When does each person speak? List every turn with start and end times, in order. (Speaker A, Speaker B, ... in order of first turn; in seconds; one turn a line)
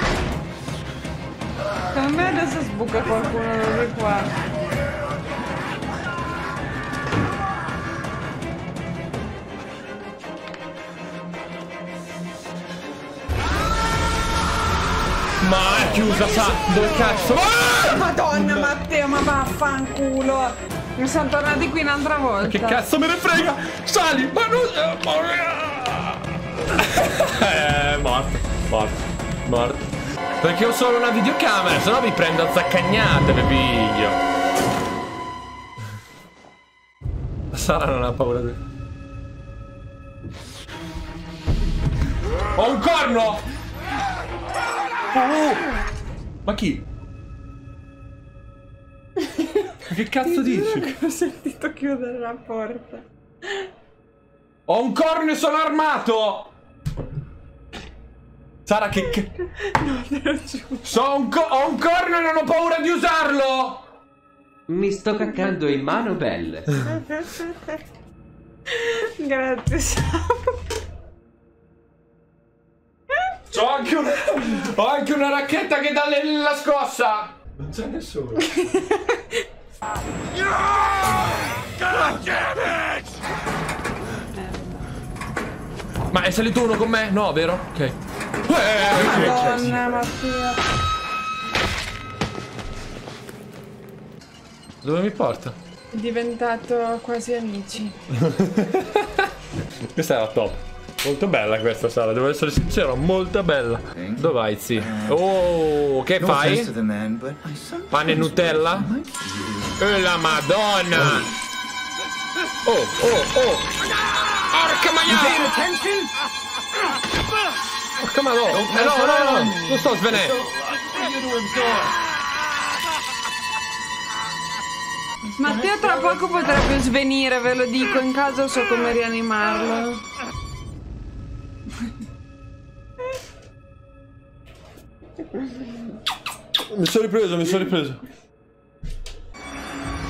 Speaker A: 1.9-4.3
Speaker B: 15.4-18.7
Speaker A: 17.8-22.9
Speaker B: 22.4-29.9
Speaker B: 30.4-34.2
Speaker B: 37.5-38.6
Speaker B: 42.5-43.4
Speaker B: 45.1-45.7
Speaker B: 46.5-46.8
Speaker A: 49.2-53.7
Speaker B: 49.8-51.0
Speaker B: 54.7-56.5
Speaker B: 58.7-59.3
Speaker A: 59.4-60.9
Speaker B: 60.8-63.8
Speaker C: 64.7-66.7
Speaker A: 65.3-65.5
Speaker A: 66.8-67.7
Speaker A: 68.7-70.6
Speaker B: 73.5-78.5
Speaker A: 78.4-79.4
Speaker A: 84.3-84.8
Speaker B: 86.1-89.8
Speaker A: 88.8-90.6
Speaker B: 94.8-95.5
Speaker A: 95.9-98.0
Speaker B: 98.1-99.3
Speaker B: 99.9-106.8
Speaker C: 106.3-108.0
Speaker B: 107.9-108.9
Speaker C: 108.7-109.1
Speaker B: 109.8-111.3
Speaker B: 112.7-113.7
Speaker B: 114.4-115.6
Speaker C: 115.4-116.1
Speaker B: 118.0-120.4
Speaker C: 118.6-119.7
Speaker C: 120.9-121.9
Speaker A: 125.4-130.0
Speaker B: 136.6-138.0